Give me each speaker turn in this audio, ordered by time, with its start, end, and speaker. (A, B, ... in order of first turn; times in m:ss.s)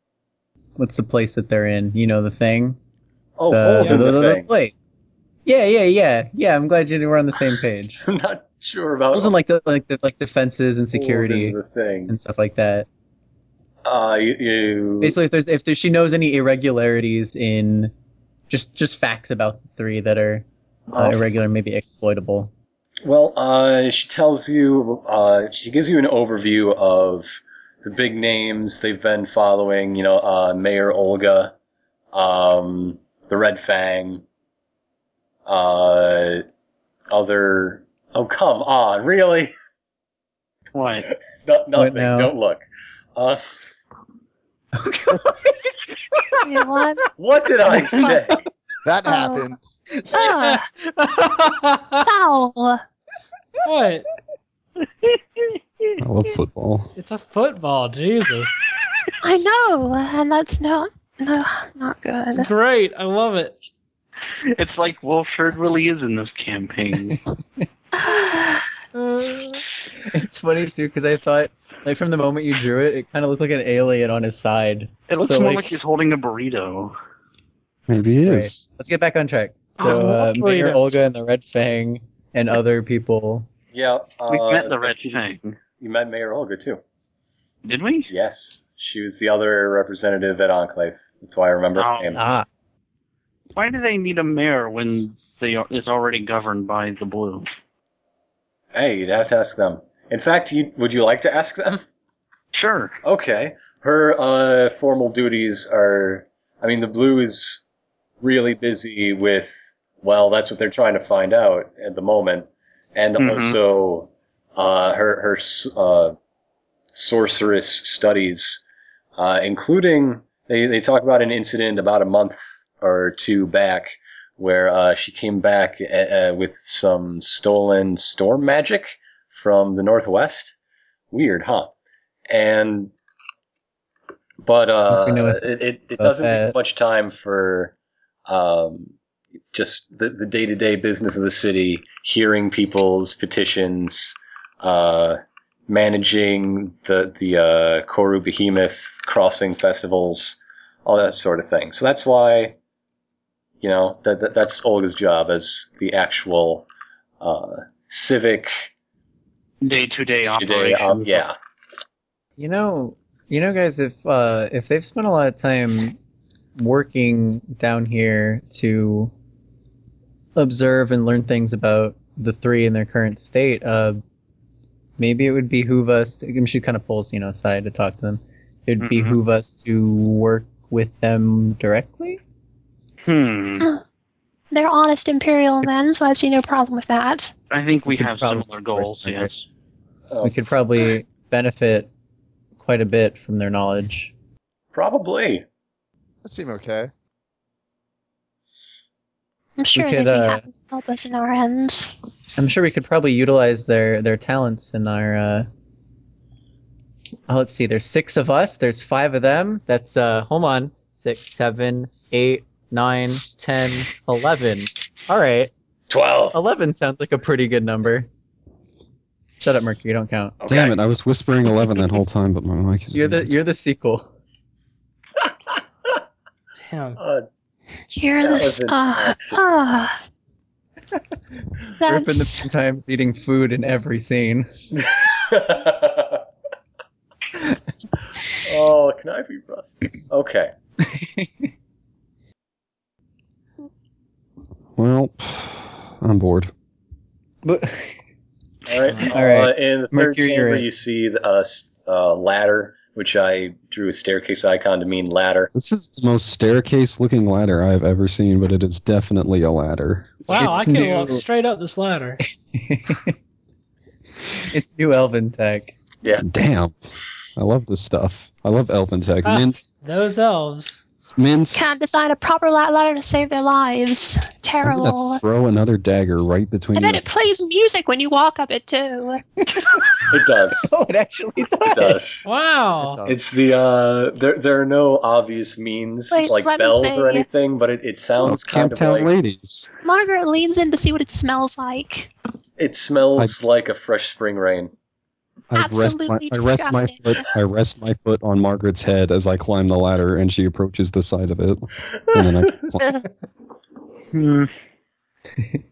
0:00.8-0:02.8 A
0:03.4-0:04.5 B
0:03.5-0:04.8 A
0:03.8-0:04.1 C
0:05.5-0:08.0 A
0:08.0-0:09.4 B
0:09.1-0:11.6 A
0:10.9-0:12.2 B
0:12.1-0:12.9 A
0:13.8-0:15.2 B
0:15.0-0:17.9 A
0:18.5-0:22.5 A
0:20.9-0:21.2 B
0:23.0-0:31.5 B
0:32.1-0:34.2 B
0:35.5-0:36.4 B
0:37.1-0:39.5 B
0:40.8-0:41.1 D
0:41.1-0:42.6 B
0:41.8-0:42.3 A
0:43.2-0:43.4 B
0:44.8-0:45.5 A
0:46.4-0:47.0 E
0:47.2-0:48.4 B
0:48.8-0:49.6 F
0:49.1-0:49.5 E
0:50.1-0:52.1 C
0:50.1-0:50.6 E
0:52.0-0:52.8 E
0:53.6-0:54.1 C
0:56.0-0:56.9 G
0:57.0-0:58.6 C
0:59.2-1:02.5 E
1:02.3-1:03.6 C
1:04.6-1:07.2 D
1:07.9-1:08.7 E
1:09.0-1:09.6 C
1:10.1-1:15.8 A
1:15.1-1:17.0 D
1:17.9-1:18.7 G
1:18.2-1:23.5 A
1:19.8-1:20.9 C
1:23.7-1:26.8 B
1:24.3-1:25.6 D
1:27.6-1:28.1 D
1:28.1-1:32.2 B
1:31.8-1:32.2 D
1:32.2-1:32.5 A
1:33.6-1:37.5 D
1:38.7-1:41.8 B
1:42.5-1:43.0 D
1:43.0-1:47.6 B
1:48.2-1:56.2 B
1:53.2-1:53.6 D
1:56.9-1:58.6 B
1:59.2-2:10.6 B
2:11.1-2:11.7 B
2:12.3-2:12.9 B
2:14.4-2:17.7 B
2:14.9-2:16.6 A
2:18.3-2:18.9 B
2:19.5-2:32.6 B
2:33.6-2:36.7 B
2:37.2-2:38.7 B
2:39.6-2:41.2 D
2:40.2-2:41.4 B
2:42.4-2:46.0 A
2:46.6-2:49.1 A
2:50.4-2:54.0 A
2:55.0-3:02.2 A
2:58.8-2:59.2 D
3:03.0-3:03.7 D
3:04.5-3:07.3 E
3:07.5-3:09.4 D
3:07.9-3:09.3 A
3:10.2-3:11.9 A
3:12.6-3:14.1 A
3:14.7-3:15.4 B
3:16.2-3:16.9 F
3:19.6-3:21.9 E
3:19.8-3:20.4 A
3:22.4-3:25.5 A
3:27.3-3:35.5 A
3:35.9-3:36.4 B
3:36.3-3:38.1 A
3:39.4-3:40.4 A
3:40.4-3:40.8 B
3:40.4-3:43.3 G
3:42.9-3:44.1 A
3:46.6-3:47.0 C
3:47.0-3:47.3 B
3:47.9-3:50.0 E
3:48.2-3:49.4 B
3:51.8-3:52.5 E
3:51.8-3:54.8 A
3:55.1-3:56.2 B
3:58.3-4:00.5 B
4:00.8-4:01.3 A
4:04.8-4:06.5 G
4:07.4-4:08.0 A
4:08.7-4:15.5 B
4:09.0-4:10.7 A
4:15.6-4:20.8 G
4:20.3-4:21.2 A
4:20.3-4:22.2 C
4:22.4-4:23.2 A
4:24.4-4:25.8 A
4:26.2-4:26.8 G
4:27.4-4:29.7 G
4:29.2-4:30.9 C
4:31.2-4:31.7 G
4:31.5-4:35.2 E
4:34.6-4:37.4 G
4:36.8-4:39.2 E
4:39.4-4:40.1 A
4:40.1-4:40.7 B
4:40.7-4:42.0 A
4:41.7-4:42.3 B
4:42.2-4:43.0 C
4:42.8-4:43.2 F
4:43.1-4:49.1 B
4:46.1-4:47.3 E
4:48.2-4:49.7 G
4:49.8-4:52.1 E
4:52.6-4:54.7 B
4:55.5-5:03.1 G
4:55.5-4:57.2 E
5:01.9-5:02.6 B
5:04.2-5:04.5 D